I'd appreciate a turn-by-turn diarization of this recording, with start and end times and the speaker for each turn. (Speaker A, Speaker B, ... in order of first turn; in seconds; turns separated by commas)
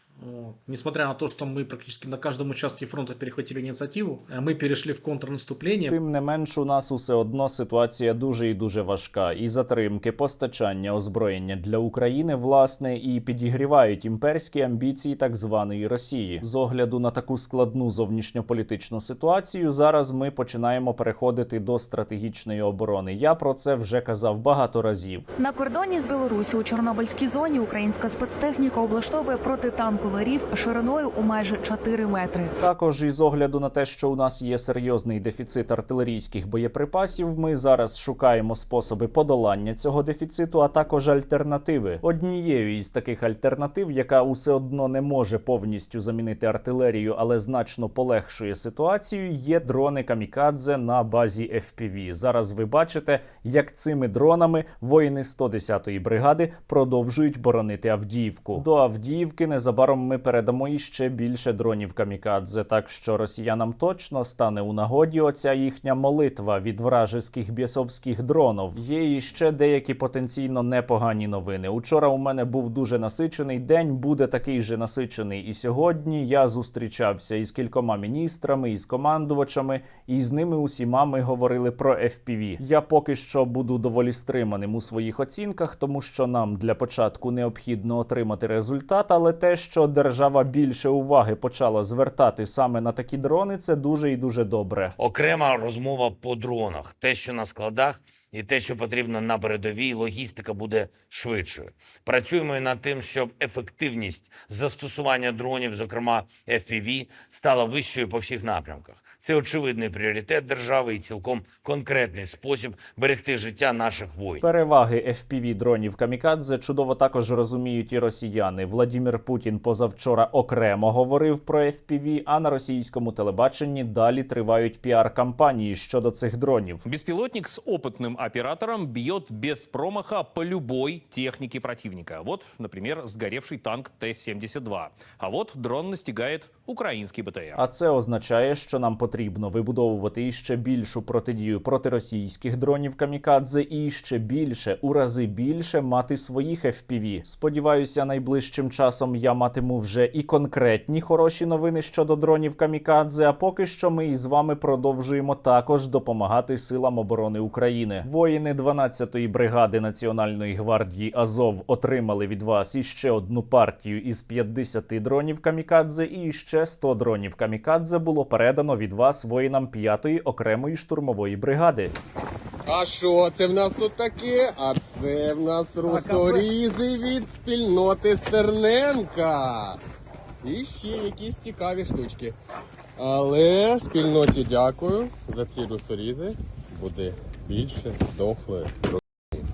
Speaker A: 0.2-6.0, Speaker B: 5.8-25.2, Speaker C: 25.4-32.5, Speaker B: 32.6-95.0, Speaker D: 95.0-114.4, Speaker B: 114.4-126.8, Speaker E: 126.8-137.6, Speaker B: 137.6-171.9, Speaker F: 172.7-179.8, Speaker F: 180.4-182.3, Speaker F: 183.0-188.7